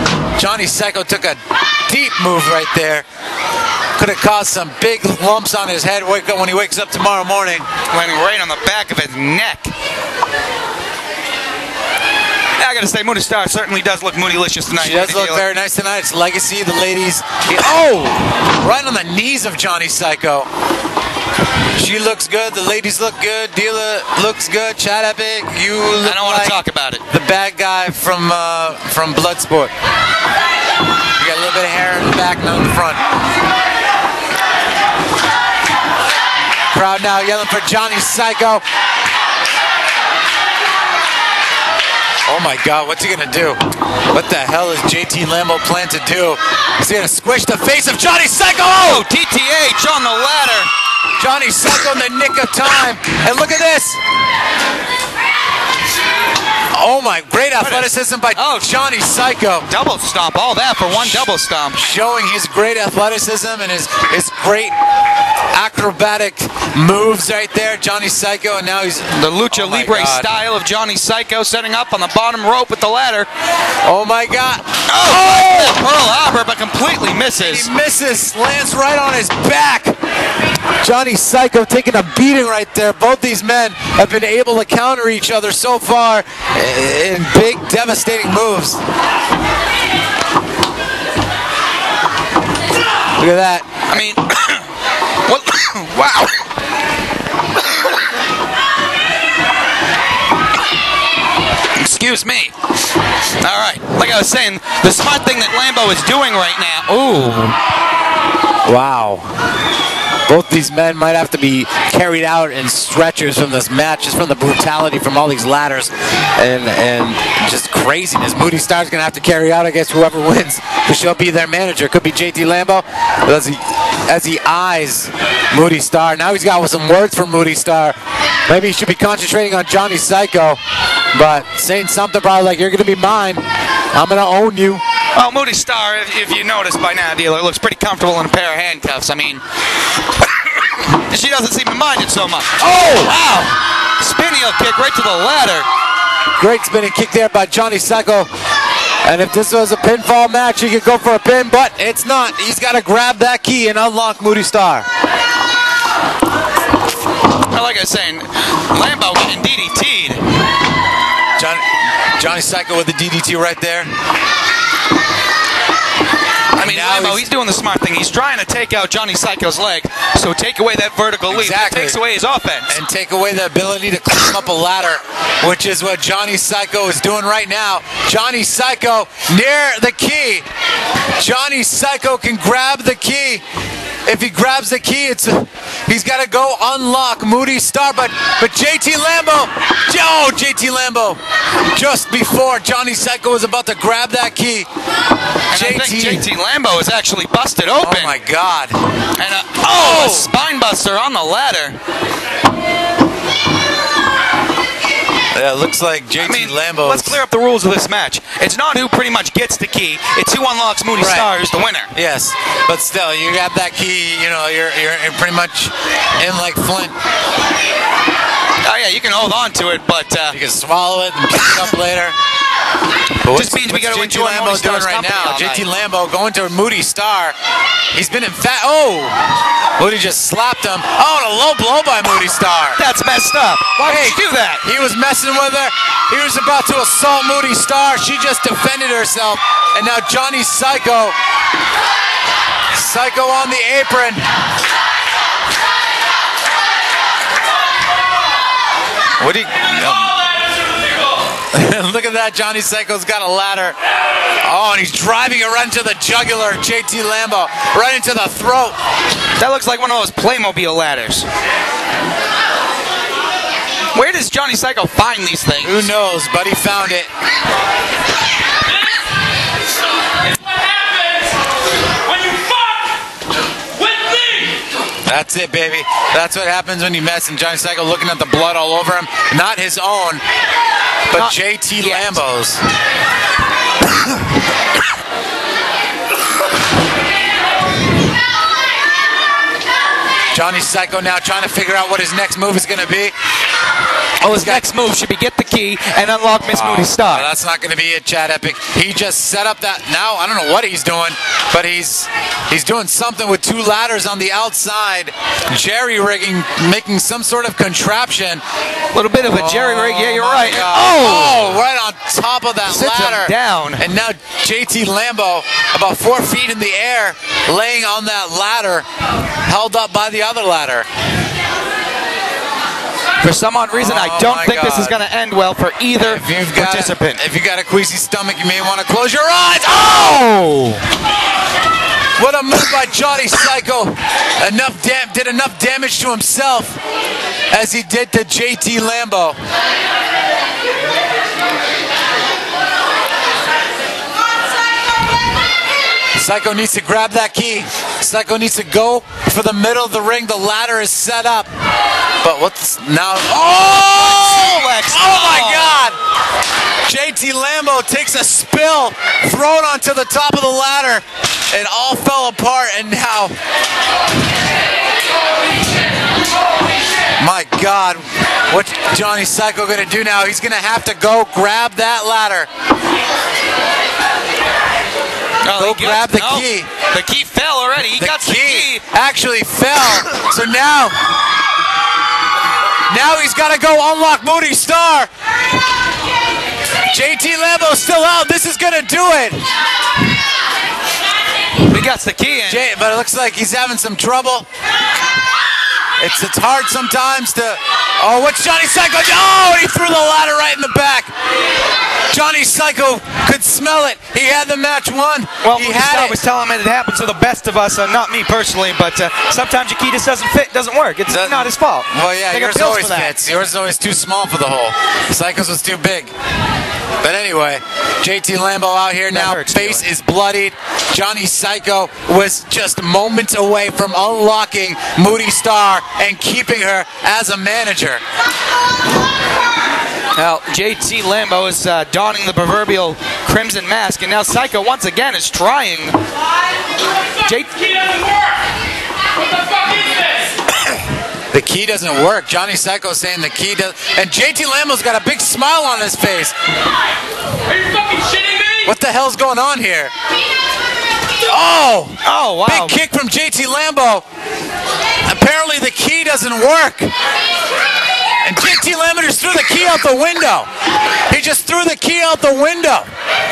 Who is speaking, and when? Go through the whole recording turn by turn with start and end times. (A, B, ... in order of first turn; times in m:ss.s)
0:00.4-0:03.0 A
0:04.0-0:07.7 A
0:07.9-0:09.7 B
0:12.5-0:15.4 B
0:14.7-0:20.5 A
0:21.7-0:29.7 A
0:26.0-0:27.0 B
0:31.2-0:33.0 A
0:36.7-0:38.6 A
0:42.2-0:49.0 A
0:48.8-0:50.7 B
0:51.2-0:54.0 A
0:56.7-0:59.7 A
0:57.6-0:58.7 B
0:59.7-1:01.8 B
1:01.7-1:04.8 A
1:05.5-1:10.3 A
1:09.1-1:13.3 B
1:13.8-1:15.8 A
1:14.9-1:17.7 B
1:17.4-1:20.0 A
1:20.8-1:28.8 A
1:33.2-1:33.7 A
1:33.9-1:34.7 B
1:35.2-1:36.4 B
1:41.8-1:42.5 B
1:43.4-1:47.5 B
1:48.6-1:49.3 A
1:50.2-2:10.6 A
2:11.1-2:14.8 A
2:15.1-2:19.4 B
2:20.9-2:22.6 B
2:22.6-2:23.6 A
2:24.0-2:25.7 B
2:26.4-2:28.3 A
2:29.0-2:34.9 A
2:37.5-2:40.2 B
2:41.4-2:43.9 A
2:46.5-2:52.7 B
2:46.6-2:47.2 A
2:51.3-2:52.0 A
2:52.7-3:00.5 A
3:01.2-3:03.4 A
3:04.0-3:11.2 A
3:11.7-3:14.7 A
3:15.5-3:18.1 B
3:15.5-3:16.3 A
3:17.8-3:18.8 A
3:19.2-3:21.8 B
3:19.6-3:20.3 A
3:25.3-3:27.2 A
3:26.2-3:31.9 B
3:31.0-3:31.3 A
3:31.9-3:36.9 A
3:38.6-3:40.4 B
3:40.3-3:42.2 A
3:43.2-3:47.4 A
3:43.3-3:45.6 B
3:47.9-3:49.2 A
3:49.8-3:52.8 A
3:52.8-3:54.6 B
3:53.8-4:01.1 A
4:02.7-4:04.3 A
4:09.2-4:10.2 A
4:11.5-4:13.8 A
4:14.4-4:18.8 A
4:19.4-4:21.3 B
4:23.9-4:25.9 B
4:25.6-4:27.1 A
4:30.3-4:31.3 C
4:32.0-4:32.9 C
4:33.7-4:34.6 C
4:35.0-4:40.2 A
4:41.1-4:42.6 A
4:41.1-4:42.2 B
4:50.3-4:53.1 A
4:54.2-4:57.3 B
4:54.2-4:54.7 A
4:56.4-5:08.4 A
5:08.9-5:11.6 B
5:09.2-5:18.8 A
5:12.7-5:13.8 B
5:19.4-5:20.9 A
5:23.2-5:27.2 B
5:23.7-5:25.0 A
5:26.0-5:30.0 A
5:29.8-5:30.8 B
5:32.2-5:36.8 A
5:37.5-5:39.4 A
5:46.2-5:51.5 A
5:52.2-5:56.0 A
5:53.6-5:55.8 B
5:56.8-6:03.4 A
6:07.2-6:12.5 A
6:15.4-6:18.8 B
6:15.6-6:16.7 A
6:18.0-6:21.0 A
6:22.9-6:25.1 A
6:26.9-6:29.4 A
6:31.6-6:32.6 B
6:32.5-6:34.5 A
6:36.0-6:41.1 A
6:42.1-6:46.2 A
6:45.4-6:53.1 B
6:51.1-6:56.1 A
6:57.0-7:08.0 A
6:59.1-6:59.8 B
7:10.1-7:16.0 B
7:17.2-7:17.8 B
7:19.2-7:20.4 C
7:21.3-7:26.4 A
7:27.5-7:28.7 C
7:28.6-7:29.9 A
7:31.2-7:34.0 A
7:32.0-7:32.8 B
7:35.0-7:36.9 A
7:38.2-7:40.5 A
7:41.1-7:42.9 A